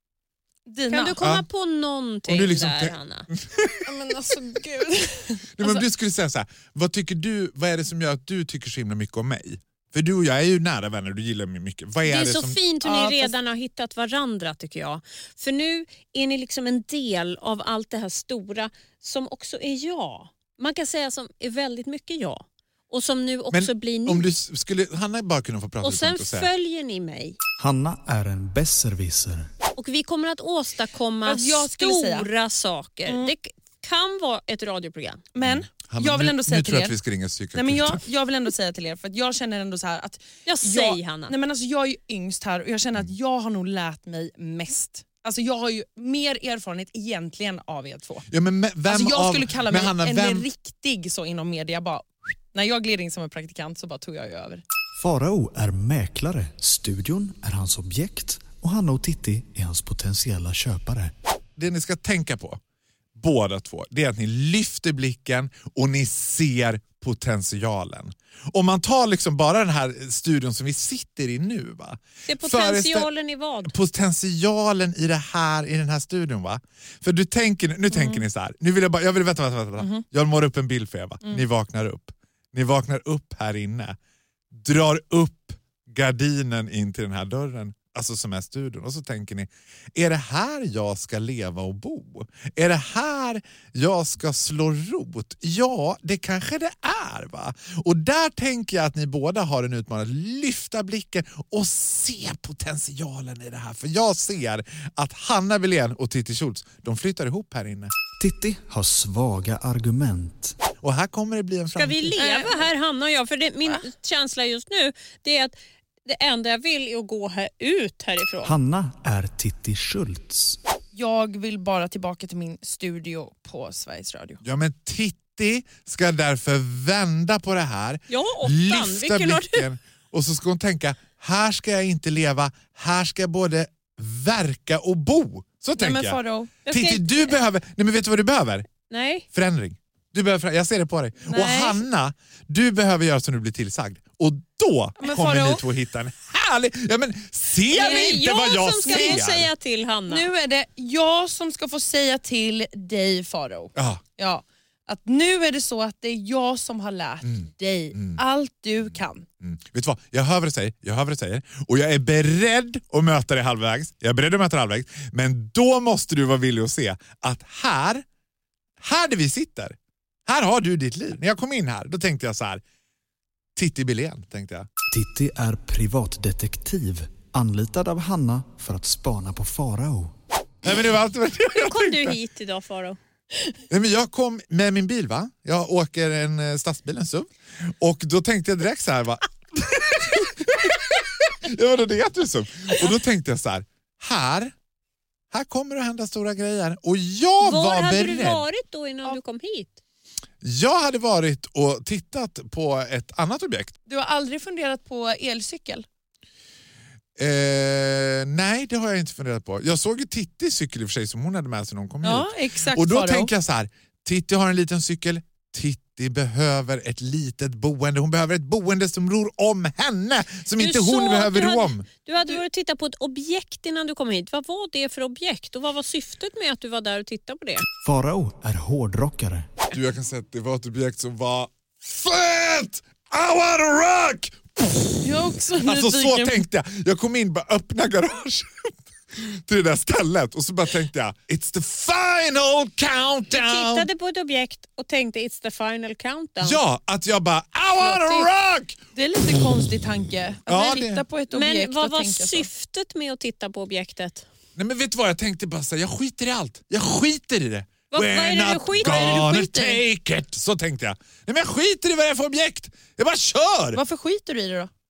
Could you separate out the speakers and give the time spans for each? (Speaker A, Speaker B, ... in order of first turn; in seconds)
Speaker A: 0.7-1.2, 3.9-5.8, 12.8-13.3, 31.2-32.3, 35.3-36.9, 37.5-48.3, 48.9-54.6, 77.9-78.2, 112.2-112.7, 120.9-124.4, 135.8-136.5, 141.3-141.8, 145.0-145.6, 147.8-148.2, 148.8-149.2, 150.1-159.2, 203.9-205.8, 212.0-213.3, 235.0-236.4, 247.8-248.3, 248.9-252.5, 258.8-259.8, 263.7-264.7
Speaker B: 0.9-3.3, 12.0-24.2, 25.8-27.4, 29.8-35.2, 40.5-41.3, 72.2-73.7, 111.7-118.5, 128.1-129.6, 136.7-137.3, 138.9-139.2, 147.7-150.3, 181.5-183.0, 197.4-199.8, 220.6-227.6, 243.3-246.6, 251.3-254.3, 257.9-259.2
Speaker C: 1.2-1.4, 2.3-3.8, 5.6-12.6, 23.5-26.5, 35.4-38.0, 48.3-50.5, 61.6-62.6, 63.1-73.1, 73.7-84.0, 84.5-107.9, 110.8-112.2, 124.4-138.7, 139.3-149.5, 153.8-154.0, 157.2-158.2, 158.8-168.0, 168.8-169.7, 170.2-172.6, 173.6-174.7, 180.6-182.2, 183.7-187.3, 187.8-194.5, 195.3-198.4, 200.4-203.7, 207.2-221.9, 229.7-243.9, 246.4-248.8, 250.5-251.0, 254.6-263.8
Speaker D: 27.6-29.5, 55.0-61.1, 108.2-110.5, 118.4-120.6, 174.9-180.1, 227.8-229.5